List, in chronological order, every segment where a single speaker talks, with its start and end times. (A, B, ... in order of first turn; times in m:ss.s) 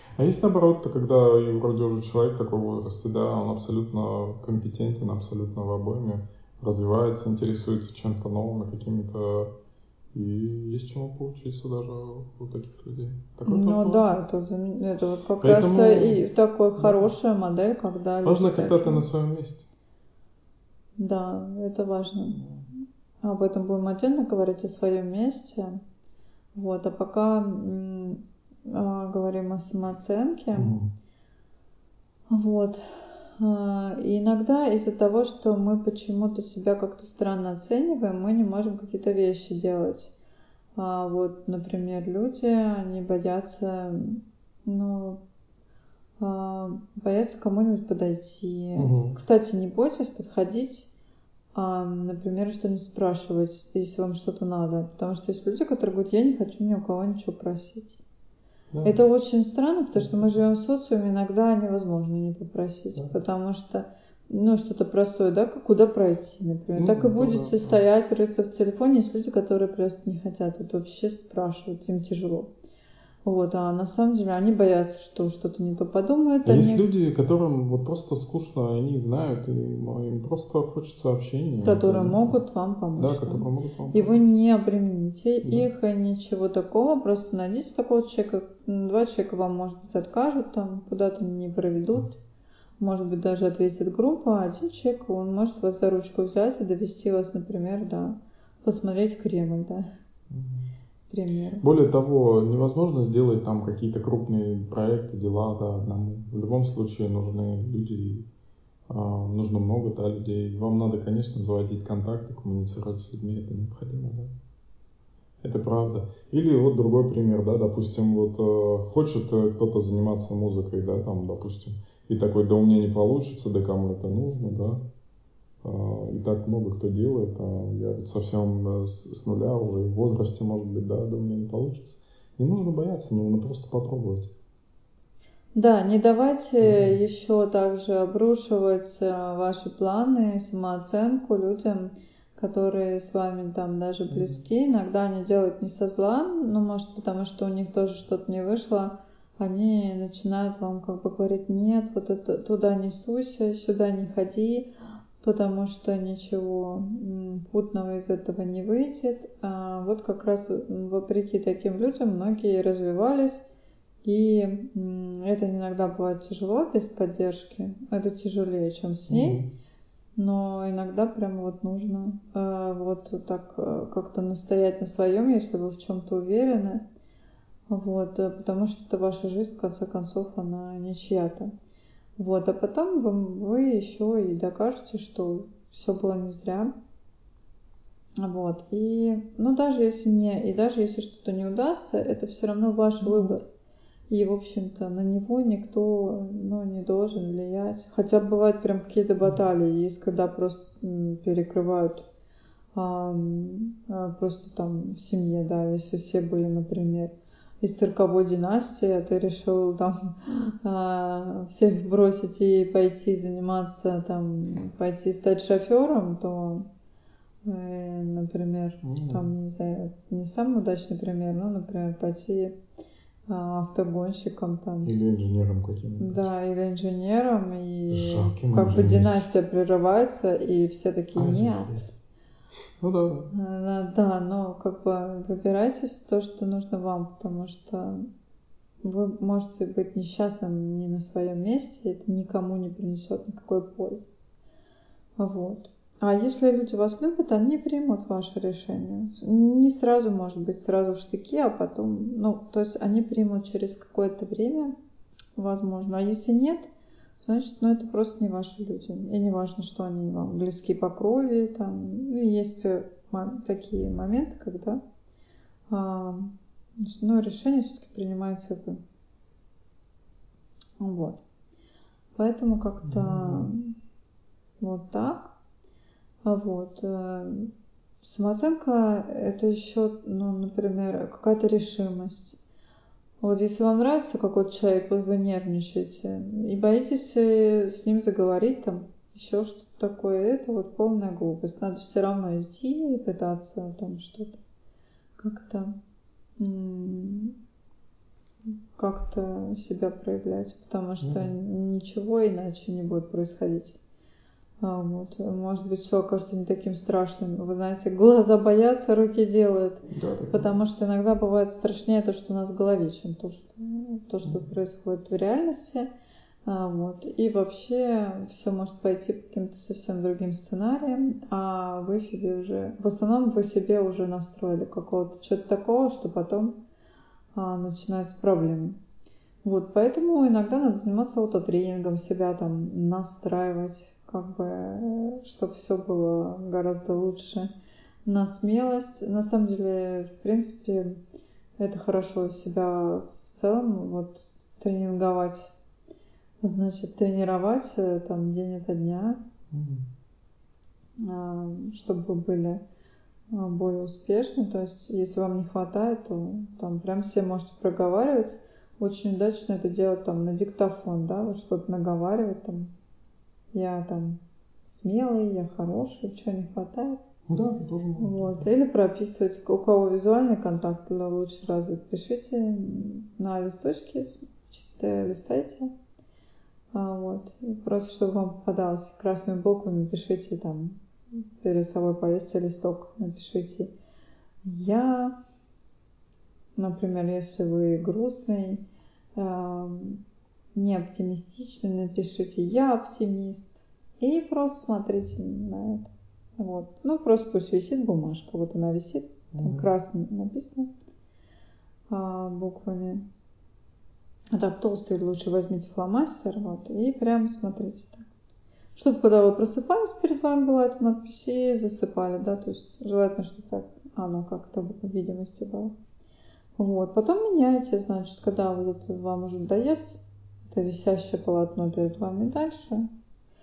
0:00.2-0:09.5 A
0:10.1-0:14.0 A
0:13.4-0:19.0 B
0:15.4-0:16.2 A
0:16.8-0:17.1 A
0:18.2-0:19.7 A
0:21.0-0:22.4 B
0:22.4-0:22.6 A
0:23.2-0:25.8 B
0:26.5-0:30.7 B
0:30.5-0:30.9 A
0:32.3-0:40.1 B
0:40.8-0:45.2 B
0:46.2-0:50.9 B
0:48.8-0:49.2 A
0:51.5-0:58.0 B
0:58.8-1:12.5 B
0:59.9-1:00.3 A
1:06.8-1:07.8 A
1:13.2-1:16.8 B
1:16.4-1:22.3 A
1:21.6-1:32.2 B
1:23.0-1:24.2 A
1:32.8-1:39.9 B
1:40.3-1:40.7 A
1:41.1-1:41.6 B
1:41.6-1:48.2 A
1:48.9-1:54.3 A
1:55.4-2:04.8 A
2:05.6-2:14.3 A
2:15.6-2:34.7 B
2:16.6-2:17.0 A
2:24.1-2:24.4 A
2:35.2-2:43.4 B
2:44.0-2:49.4 B
2:49.1-2:49.5 A
2:50.2-2:56.8 B
2:57.7-3:01.5 B
3:02.2-3:06.7 B
3:08.2-3:13.4 B
3:13.0-3:13.3 A
3:14.1-3:22.1 B
3:22.7-3:36.6 B
3:37.4-3:42.6 B
3:38.8-3:39.2 A
3:43.3-3:44.9 B
3:44.8-3:46.2 A
3:46.0-3:51.9 B
3:47.9-3:49.3 A
3:51.2-3:51.9 A
3:52.8-3:53.3 A
3:53.3-3:58.0 B
3:58.8-4:04.1 B
4:05.2-4:14.7 B
4:15.4-4:16.7 B
4:17.2-4:24.8 B
4:25.7-4:28.8 B
4:30.8-4:31.2 B
4:32.2-4:33.7 B
4:32.8-4:33.5 A
4:34.6-4:35.3 B
4:36.2-4:37.5 B
4:38.0-4:42.4 B
4:43.2-4:54.4 B
4:55.2-4:55.8 B
4:56.4-4:57.3 B
4:58.8-5:03.8 B
5:01.0-5:01.3 A
5:04.6-5:15.9 B
5:09.9-5:10.5 A
5:16.4-5:26.6 B
5:27.4-5:28.8 B
5:29.4-5:37.5 B
5:38.0-5:41.0 B
5:41.6-5:45.5 B
5:46.4-5:49.2 B
5:49.5-5:49.8 A
5:51.0-5:52.6 B
5:53.3-6:02.7 B
6:03.5-6:07.0 B
6:07.3-6:08.4 A
6:08.0-6:15.7 B
6:16.7-6:20.8 B
6:21.4-6:23.7 B
6:24.4-6:25.1 B
6:26.6-6:28.6 B
6:29.2-6:30.0 B
6:30.6-6:40.7 B
6:39.3-6:39.7 A
6:41.9-6:43.0 B
6:44.3-6:48.1 B
6:48.7-6:55.7 B
6:56.6-7:00.0 B
7:00.5-7:02.8 B